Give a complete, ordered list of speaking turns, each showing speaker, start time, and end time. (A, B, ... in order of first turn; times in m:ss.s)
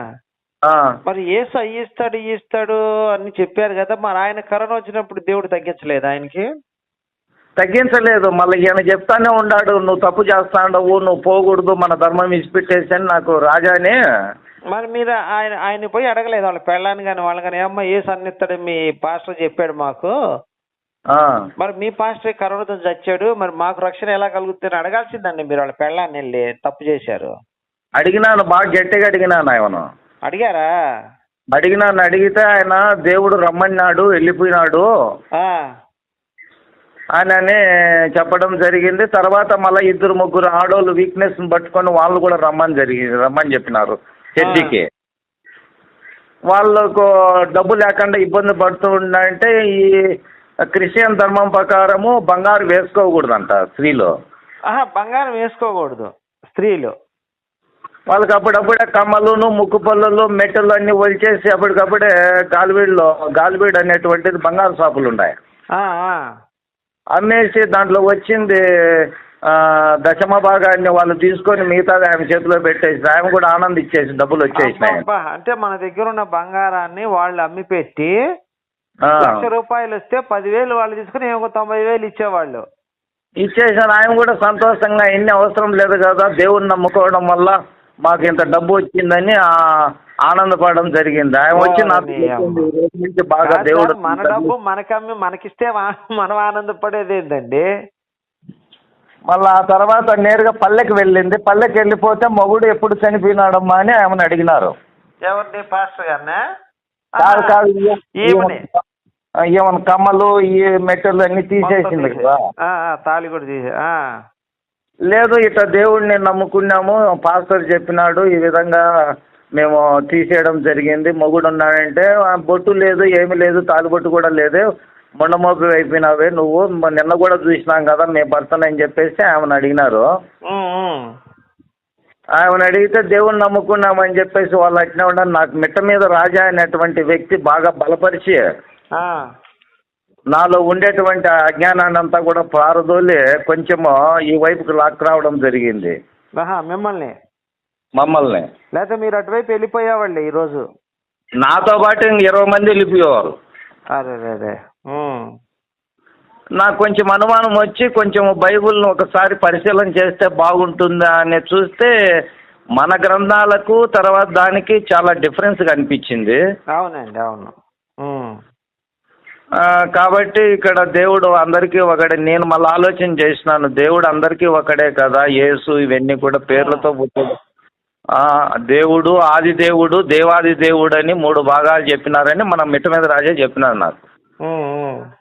0:01.1-0:06.4 A
0:07.6-0:14.0 B
0:14.7-0:20.1 A
0:21.6-0:27.3 A
0:28.0-0:29.8 B
0:30.3-0:30.6 A
0:31.5-0:34.8 B
0:37.2-0:37.6 B
0:38.2-0:44.8 B
0:44.4-0:44.7 A
0:46.5-0:49.9 B
0:50.7-0:54.1 B
0:54.7-0:56.9 A
0:58.1-1:05.3 B
1:05.8-1:06.2 A
1:07.2-1:15.0 B
1:14.6-1:18.1 A
1:19.1-1:19.5 B
1:19.2-1:22.6 A
1:23.4-1:29.4 B
1:30.3-1:34.5 B
1:31.6-1:32.7 A
1:33.5-1:37.6 A
1:39.3-1:44.7 B
1:45.3-1:46.4 A
1:47.2-1:47.6 A
1:47.2-1:48.7 B
1:48.2-1:48.6 A
1:49.5-1:52.4 B
1:51.6-1:54.0 A
1:55.1-1:58.8 B
1:59.6-2:04.6 B
2:05.2-2:10.0 B
2:10.5-2:11.1 A
2:12.4-2:18.4 B
2:19.0-2:19.2 A
2:20.3-2:25.9 B
2:26.4-2:27.1 A
2:28.0-2:28.5 B
2:28.8-2:30.6 A
2:31.4-2:33.3 B
2:34.0-2:35.3 A
2:36.6-2:41.9 B
2:42.8-2:46.4 B
2:46.8-2:48.4 A
2:49.6-2:57.3 B
2:56.6-2:56.9 A
2:58.2-3:04.0 B
3:04.4-3:05.0 A